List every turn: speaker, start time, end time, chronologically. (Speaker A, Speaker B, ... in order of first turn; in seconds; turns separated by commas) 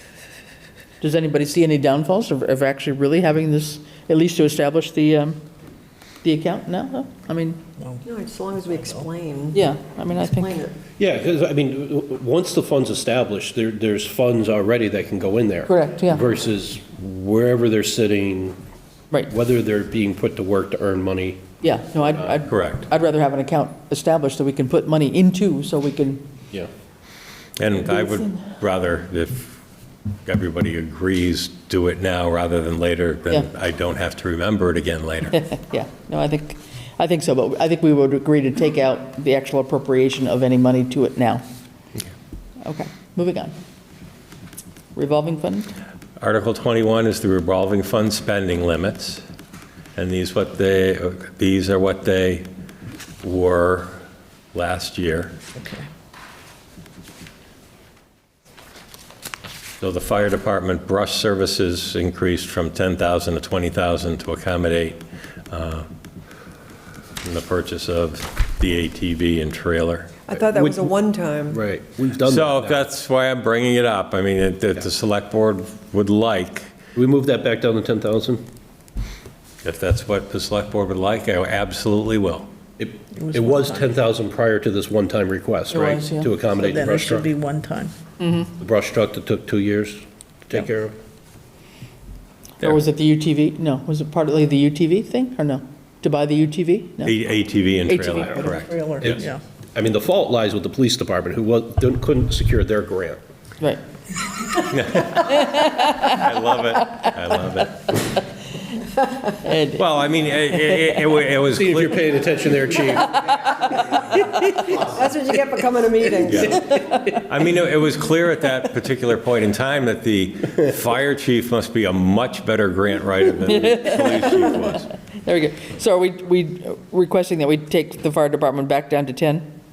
Speaker A: 1.0-5.4, Speaker A: 6.2-7.6, Speaker B: 8.0-9.6, Speaker A: 9.5-10.6, Speaker B: 10.2-10.8, Speaker C: 11.0-18.6, Speaker A: 15.7-16.3, Speaker C: 19.3-22.5, Speaker A: 21.6-26.3, Speaker D: 22.5-22.9, Speaker D: 27.6-29.6, Speaker D: 30.3-35.4, Speaker A: 35.3-41.5, Speaker A: 42.6-43.6, Speaker A: 45.0-45.7, Speaker D: 46.2-49.2, Speaker D: 50.0-52.5, Speaker D: 53.2-54.0, Speaker D: 54.5-55.4, Speaker E: 55.6-55.9, Speaker D: 59.8-65.9, Speaker D: 67.2-70.3, Speaker B: 70.3-71.6, Speaker C: 70.5-70.9, Speaker C: 71.5-72.8, Speaker D: 72.2-76.7, Speaker C: 77.0-78.5, Speaker D: 79.6-82.5, Speaker C: 82.8-87.3, Speaker E: 83.1-83.8, Speaker A: 85.7-86.3, Speaker E: 86.6-87.9, Speaker A: 88.2-88.5, Speaker C: 88.6-91.0, Speaker A: 92.6-97.1, Speaker D: 97.0-99.2, Speaker A: 97.9-98.7, Speaker E: 98.5-99.4, Speaker C: 99.8-103.2, Speaker D: 104.6-108.0, Speaker A: 105.2-107.1, Speaker A: 109.4-109.8, Speaker D: 109.8-112.0, Speaker A: 110.5-111.0, Speaker C: 111.5-113.2, Speaker A: 113.1-114.5, Speaker B: 114.0-116.9, Speaker D: 116.3-116.6, Speaker D: 117.2-124.9, Speaker A: 123.5-129.5